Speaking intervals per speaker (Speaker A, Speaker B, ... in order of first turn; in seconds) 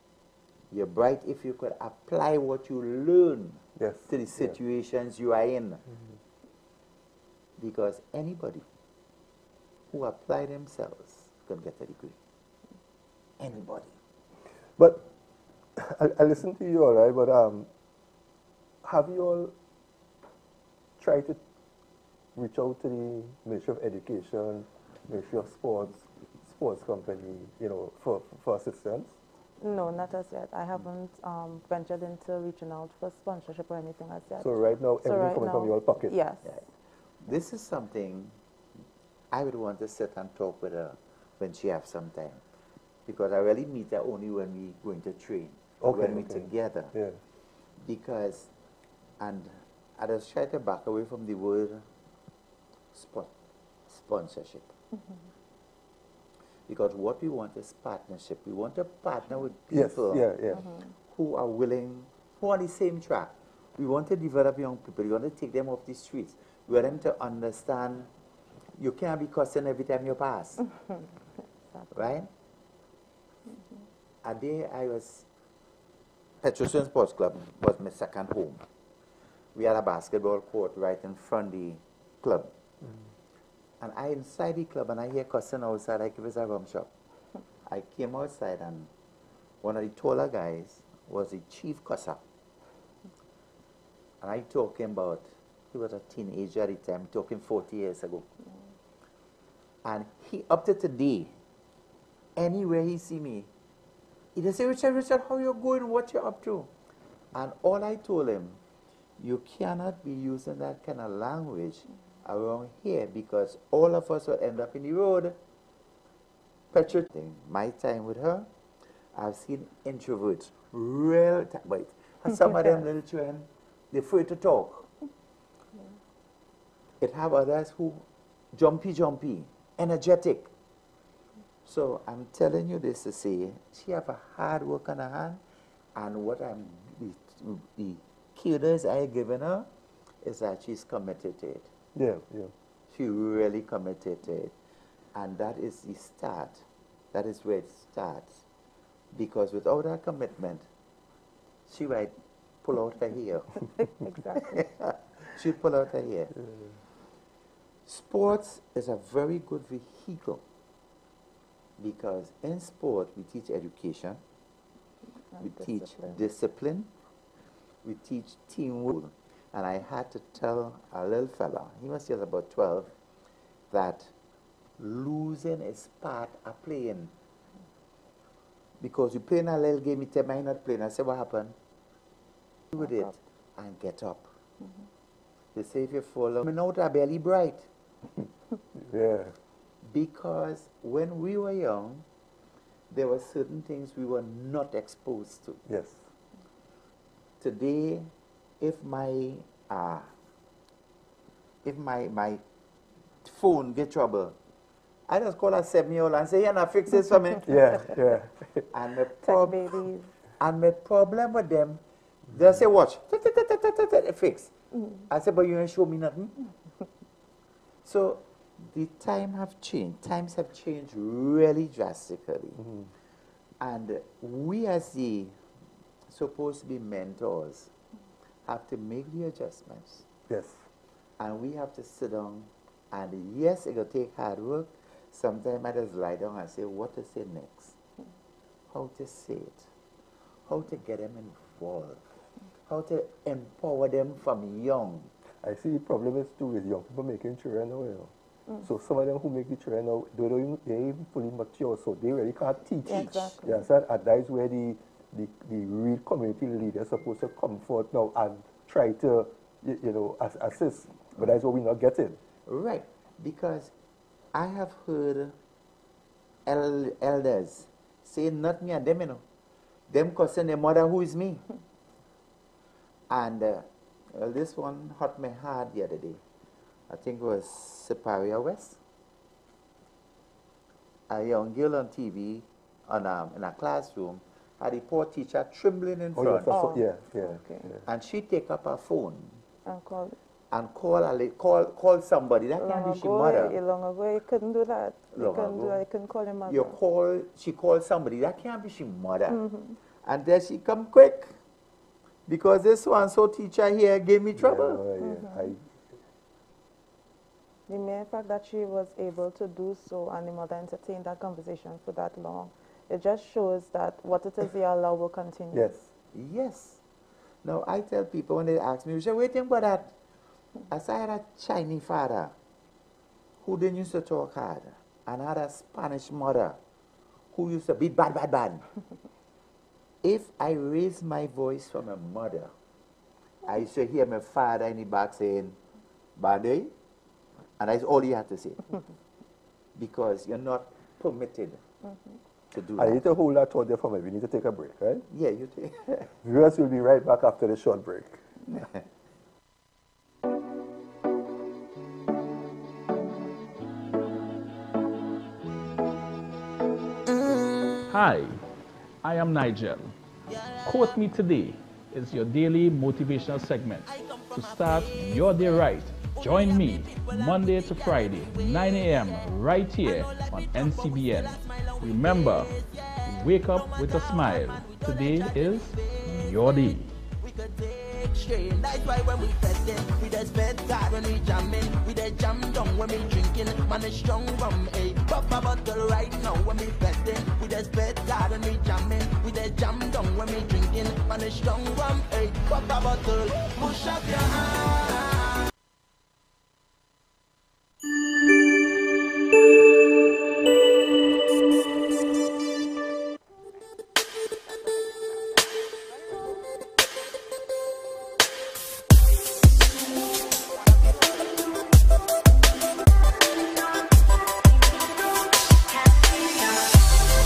Speaker A: 0.7-5.8, 7.6-8.6, 9.9-12.2, 13.4-13.9, 37.2-38.3, 39.3-42.4, 43.1-46.9, 47.8-48.5, 49.2-51.8, 52.9-53.3, 53.9-54.7, 56.7-60.2, 61.1-68.1, 68.8-70.7, 71.9-72.3, 74.2-75.3, 76.4-78.6, 79.5-82.5, 83.8-86.9, 87.7-88.9, 89.6-92.2, 94.2-98.3, 99.8-101.3, 102.3-103.5, 104.3-106.7, 107.3-108.6, 109.2-115.4, 116.7-118.5, 119.1-124.9, 127.0-130.5, 131.6-135.4, 135.9-139.7, 140.2-141.7, 142.9-144.5, 145.1-148.4, 149.1-150.6, 151.7-153.5, 154.5-156.3, 157.9-160.4, 161.8-164.2, 165.4-166.9, 167.8-172.9, 173.7-174.1, 174.8-177.1, 178.8-181.5, 182.7-184.3, 185.5-187.7, 189.8-192.0, 192.9-195.6, 197.4-200.1, 201.6-202.4, 203.2-204.3, 205.1-207.8, 208.7-209.6, 210.4-211.8, 212.3-216.3, 217.8-222.6, 223.6-225.3, 226.1-227.7, 228.4-230.1, 231.2-237.8, 238.7-239.7, 240.5-242.0, 242.7-245.1, 262.5-263.7, 264.3-265.3, 266.5-269.2, 269.9-271.4, 273.1-276.2, 276.9-278.8, 281.1-286.6, 287.8-289.4, 290.5-293.5, 295.1-295.8, 296.5-299.4, 300.0-301.3, 302.3-304.8, 316.1-316.8, 317.4-319.9, 320.7-322.3, 323.4-326.6, 327.3-328.6, 330.0-332.5, 333.4-335.6, 336.2-336.7, 337.6-338.6, 339.8-341.6, 342.5-343.0, 345.1-345.9
Speaker B: 3.8-4.5, 14.8-15.1, 15.8-17.7, 18.8-19.5, 21.0-21.4, 22.3-29.1, 34.4-36.1, 45.8-47.2, 59.7-60.7, 141.9-142.5, 188.8-189.3, 195.7-196.0, 207.4-208.7, 222.6-222.9, 230.3-230.6, 245.4-262.2, 286.1-287.8, 304.4-305.7, 315.5-315.9, 342.8-345.1, 346.0-348.2
Speaker C: 29.6-36.5, 153.8-154.7, 165.4-166.2, 209.2-210.1, 252.8-253.4, 286.4-287.7, 289.6-290.1, 292.6-296.8, 299.3-299.8, 305.0-305.5, 307.7-315.7
Speaker D: 357.9-358.4, 359.0-359.9, 360.6-376.9
Speaker E: 360.4-360.9, 363.9-365.6, 366.1-376.1, 377.1-395.3